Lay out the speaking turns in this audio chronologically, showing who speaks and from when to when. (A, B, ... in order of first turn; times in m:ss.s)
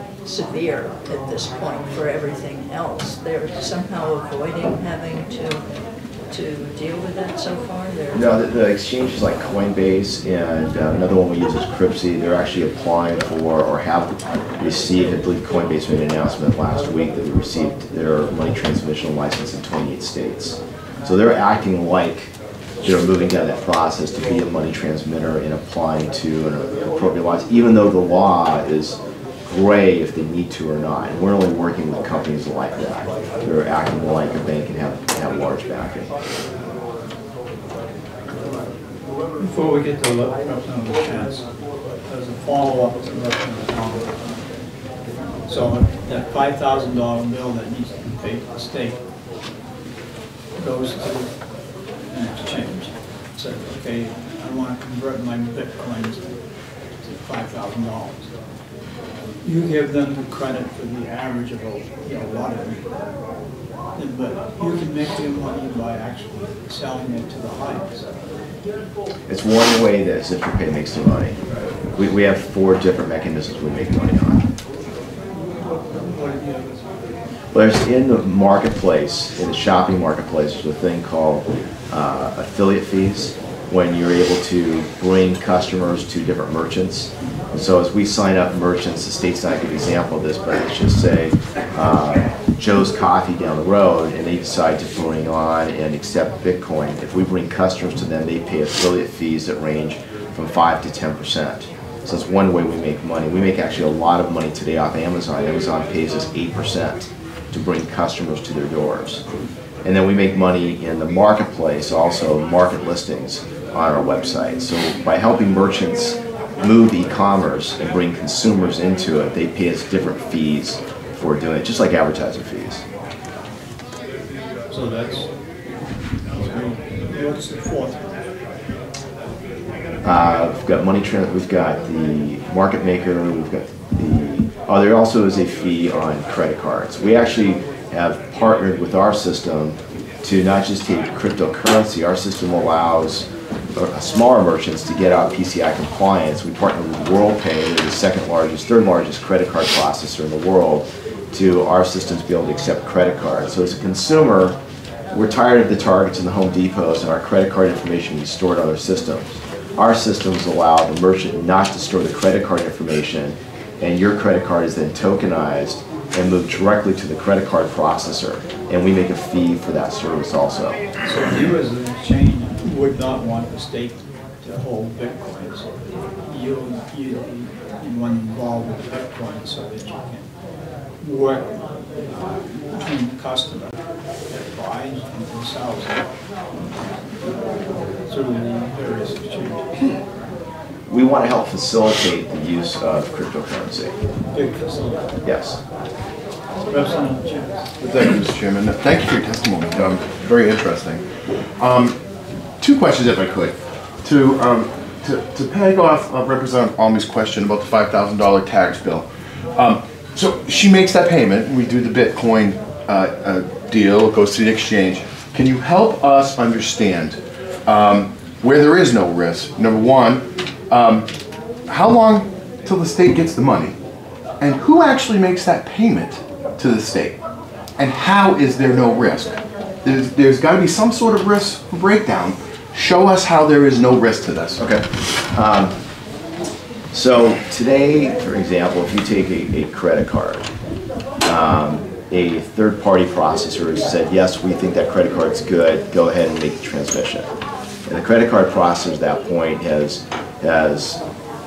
0:00.2-0:05.6 A
0:06.3-0:08.3 A
0:08.1-0:36.1 B
0:39.4-0:41.5 C
0:42.1-0:44.2 C
0:45.5-0:49.0 C
0:50.6-0:51.3 C
0:52.1-0:56.4 C
0:57.0-0:58.3 C
0:59.4-1:02.9 C
1:04.0-1:08.3 C
1:09.3-1:11.4 B
1:11.9-1:14.5 B
1:15.4-1:17.1 C
1:17.5-1:49.2 B
1:49.8-2:02.8 B
2:04.7-2:05.3 C
2:06.3-2:08.1 C
2:10.0-2:34.6 B
2:35.1-2:50.8 B
2:51.0-3:00.3 C
3:01.0-3:06.1 C
3:08.1-3:09.8 C
3:10.9-3:14.0 B
3:14.3-3:15.2 C
3:15.2-3:15.6 B
3:16.7-3:17.7 C
3:17.8-3:21.0 D
3:21.6-3:22.0 D
3:22.6-3:41.1 D
3:41.7-3:43.8 D
3:44.4-3:47.2 D
3:47.8-3:54.6 D
3:54.6-3:55.8 B
3:56.9-4:00.5 B
4:01.2-4:07.3 B
4:07.9-4:11.0 B